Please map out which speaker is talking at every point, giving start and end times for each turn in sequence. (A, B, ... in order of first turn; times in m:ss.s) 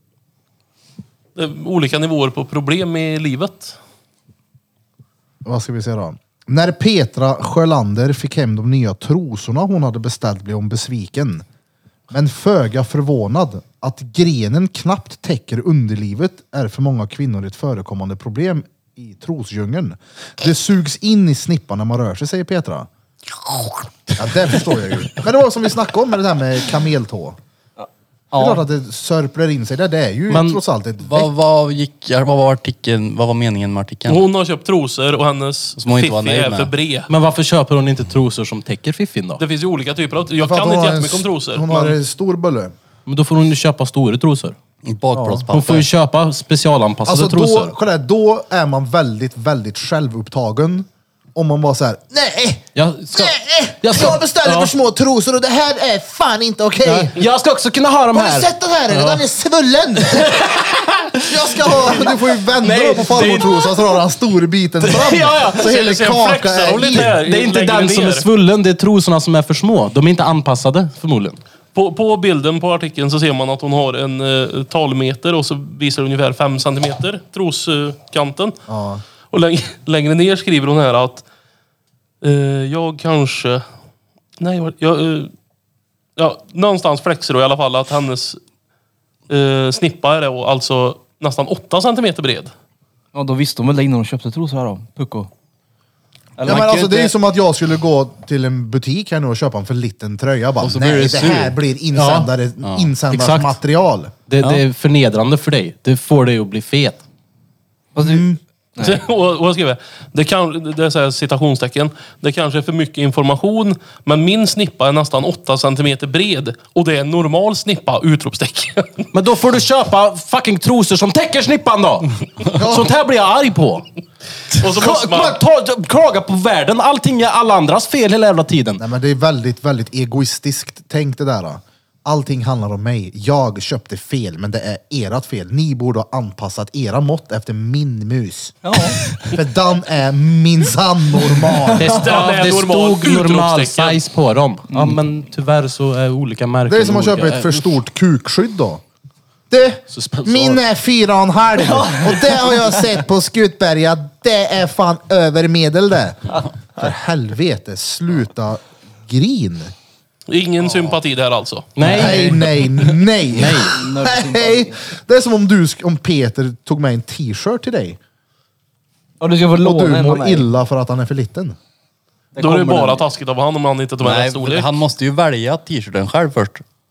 0:01.3-0:03.8 A
0:05.4-0:11.4 B
0:12.1-0:22.9 B
0:24.2-0:27.4 B
0:27.8-0:28.6 C
0:28.3-0:31.3 B
0:30.3-0:30.6 D
0:31.0-0:34.3 E
0:34.1-0:37.1 A
0:35.8-0:36.7 E
0:37.1-0:39.4 D
0:39.4-0:42.0 A
0:40.4-0:42.7 B
0:43.0-0:44.6 D
0:44.8-0:45.9 E
0:45.1-0:45.5 B
0:45.5-0:47.7 D
0:47.0-0:57.1 B
0:52.7-0:54.7 D
0:56.8-0:59.2 D
0:58.1-1:00.3 B
1:00.1-1:03.9 D
1:01.2-1:07.2 B
1:04.8-1:05.7 D
1:05.5-1:08.3 A
1:06.9-1:11.4 D
1:11.7-1:18.6 A
1:18.7-1:19.0 B
1:19.3-1:21.2 A
1:22.2-1:23.6 A
1:24.4-1:25.3 A
1:26.2-1:28.4 A
1:29.3-1:32.5 A
1:33.1-1:35.3 C
1:36.4-1:37.1 C
1:36.4-1:44.1 B
1:36.5-1:37.0 E
1:40.6-1:41.6 E
1:41.9-1:42.3 D
1:42.6-1:42.9 E
1:43.1-1:43.6 D
1:44.3-1:47.0 D
1:47.9-1:49.0 C
1:48.0-1:48.4 B
1:48.8-1:59.1 A
1:59.1-2:03.8 D
2:02.6-2:02.9 B
2:04.6-2:05.4 A
2:04.6-2:08.8 D
2:08.8-2:18.6 B
2:18.6-2:19.0 C
2:19.1-2:21.9 B
2:21.4-2:22.0 C
2:21.8-2:27.6 D
2:21.8-2:24.0 A
2:24.7-2:25.0 C
2:26.7-2:28.8 B
2:29.5-2:39.7 B
2:29.9-2:30.6 D
2:31.6-2:32.8 C
2:40.3-2:41.7 A
2:41.7-2:43.8 D
2:41.8-2:42.3 C
2:41.8-2:48.0 B
2:43.7-2:44.8 C
2:49.2-2:50.5 C
2:49.6-2:51.6 B
2:52.3-2:53.1 C
2:52.4-2:54.7 A
2:54.0-2:56.6 E